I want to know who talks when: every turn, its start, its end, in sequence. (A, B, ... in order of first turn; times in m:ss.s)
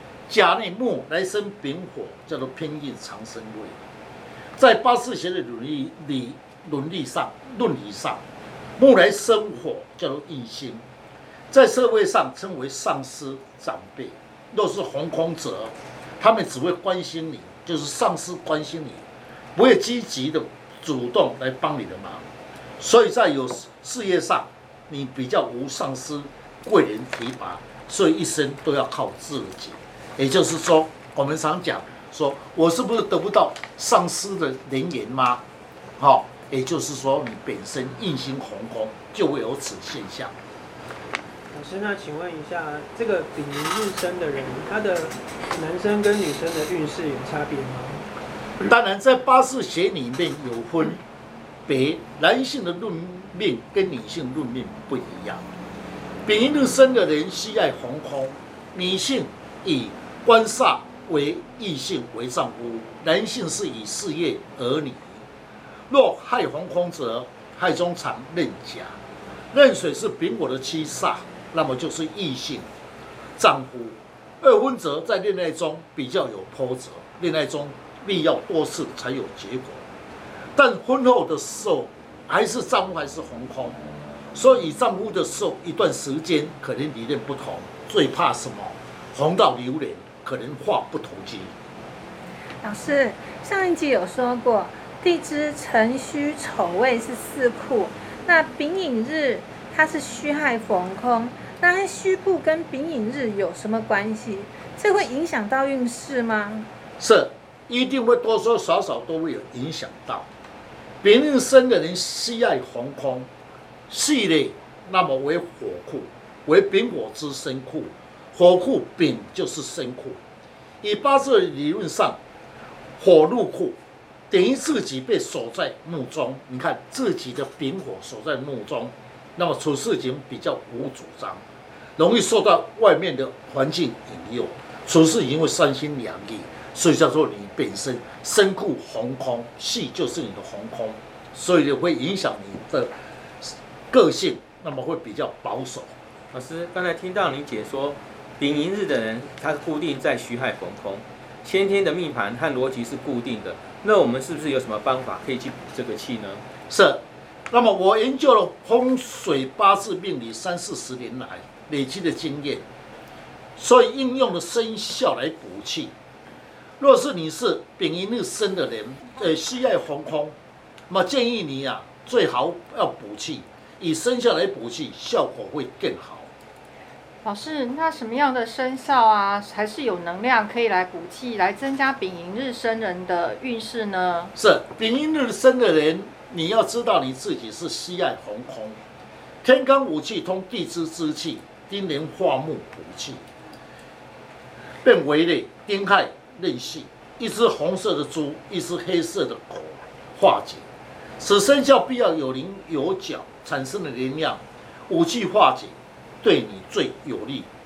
0:00.3-0:03.8 A
0:04.6-0:08.2 A
0:08.8-0:10.8 A
0:11.5-0:19.0 A
0:19.6-0:22.3 A
0:22.8-0:35.4 A
0:36.0-0:40.3 A
0:41.5-0:48.0 B
0:48.6-0:51.0 A
0:51.7-0:55.4 A
0:56.3-1:05.2 A
1:05.9-1:09.0 A
1:09.5-1:12.7 A
1:13.4-1:19.8 A
1:20.6-1:23.8 A
1:24.3-1:31.5 A
1:32.6-1:46.7 C
1:47.0-1:50.3 A
1:51.0-1:53.3 A
1:53.9-2:00.2 A
2:00.8-2:02.2 A
2:03.0-2:03.8 A
2:04.3-2:11.4 A
2:12.0-2:26.0 A
2:26.3-2:36.4 D
2:36.7-2:42.7 A
2:43.6-2:45.9 A
2:46.8-2:50.4 A
2:50.9-2:56.3 A
2:57.2-3:04.3 E
3:04.4-3:08.8 A
3:09.4-3:13.2 A
3:14.8-3:20.6 A
3:21.2-3:27.5 A